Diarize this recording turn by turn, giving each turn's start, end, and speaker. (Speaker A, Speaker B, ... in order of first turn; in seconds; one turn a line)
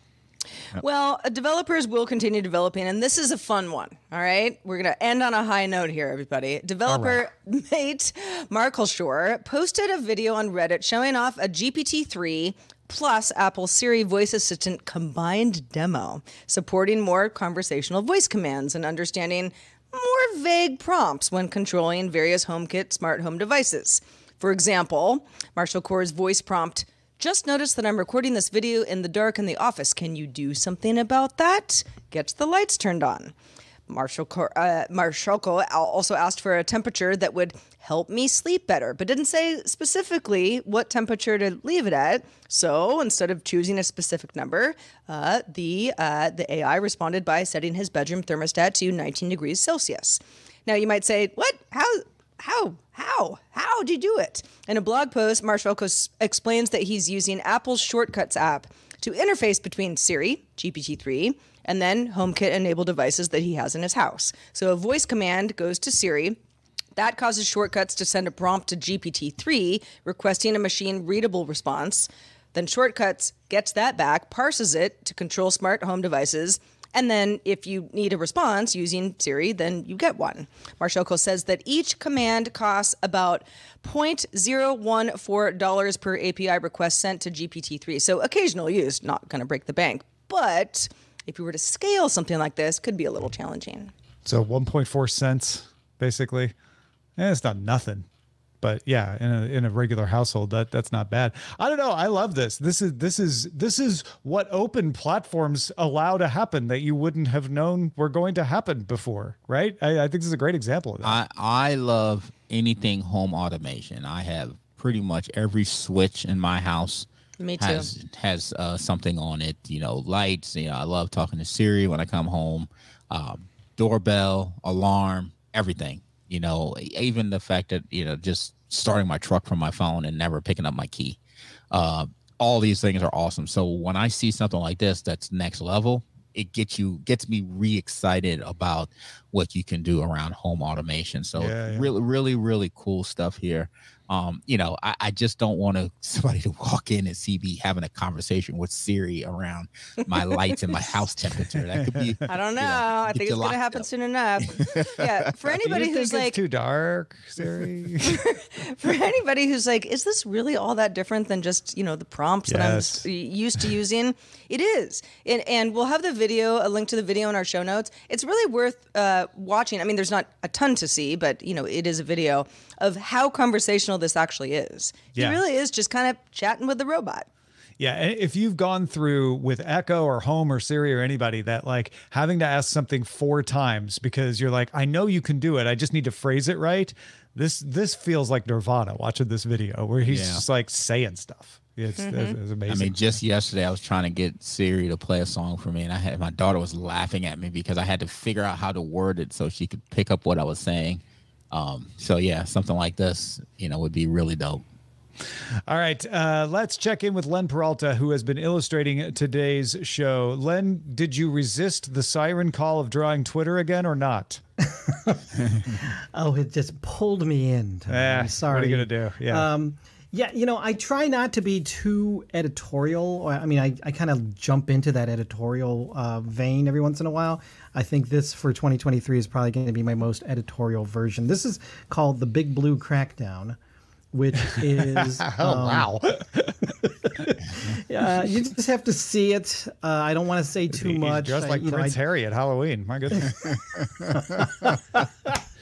Speaker A: 0.8-33.3
Speaker B: 6.9-7.2
Speaker A: 33.9-66.4
Speaker A: 67.0-93.9
Speaker B: 94.2-96.5
Speaker B: 97.2-98.0
Speaker B: 98.6-111.2
Speaker C: 111.0-131.2
Speaker A: 117.4-117.9
Speaker C: 131.7-153.8
Speaker B: 141.3-141.9
Speaker A: 150.4-150.8
Speaker A: 152.3-156.4
Speaker C: 154.4-155.5
Speaker B: 155.5-158.2
Speaker A: 158.0-177.3
Speaker B: 162.5-163.1
Speaker B: 175.1-175.4
Speaker B: 177.8-193.1
Speaker C: 190.0-190.4
Speaker A: 192.0-192.4
Speaker C: 192.7-204.6
Speaker B: 205.7-214.4
Speaker D: 214.8-233.6
Speaker B: 217.9-219.5
Speaker D: 234.1-235.9
Speaker B: 234.9-236.5
Speaker D: 237.2-242.0
Speaker B: 240.7-243.5
Speaker D: 244.2-245.3